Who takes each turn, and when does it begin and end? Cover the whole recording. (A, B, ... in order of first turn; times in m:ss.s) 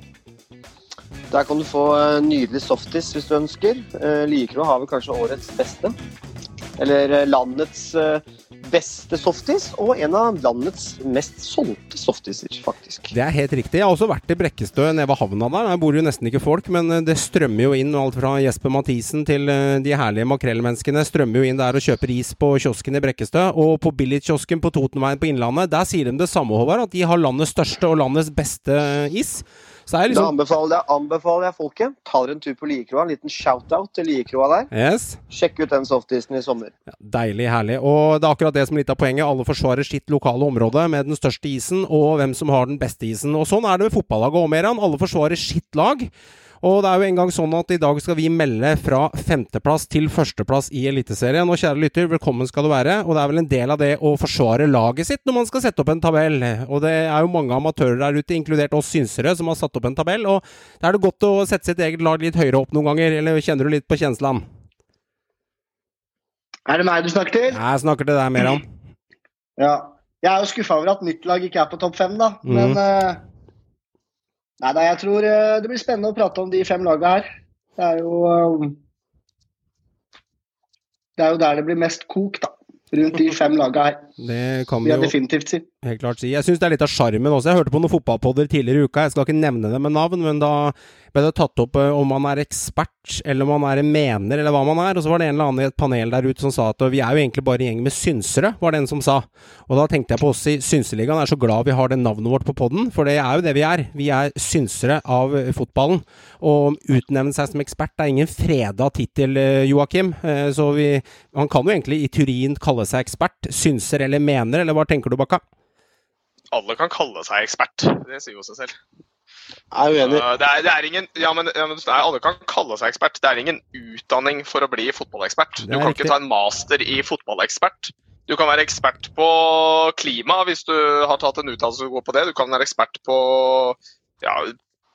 0:01.3-0:06.0 A
0:06.8-0:13.1 A
0:13.1-0:30.3 B
0:30.1-0:34.7 A
0:34.7-0:35.2 B
0:35.3-0:36.7 A
0:36.9-0:46.1 B
0:46.6-1:04.4 B
1:06.7-1:07.6 C
1:07.5-1:08.7 B
1:09.6-1:13.2 C
1:12.4-1:12.8 B
1:14.6-1:18.8 C
1:21.2-1:24.1 C
1:24.2-1:25.1 B
1:24.8-1:25.7 C
1:25.8-1:55.4 B
1:56.5-1:58.8 D
1:59.7-2:00.3 A
2:00.0-2:14.6 D
2:05.6-2:06.2 B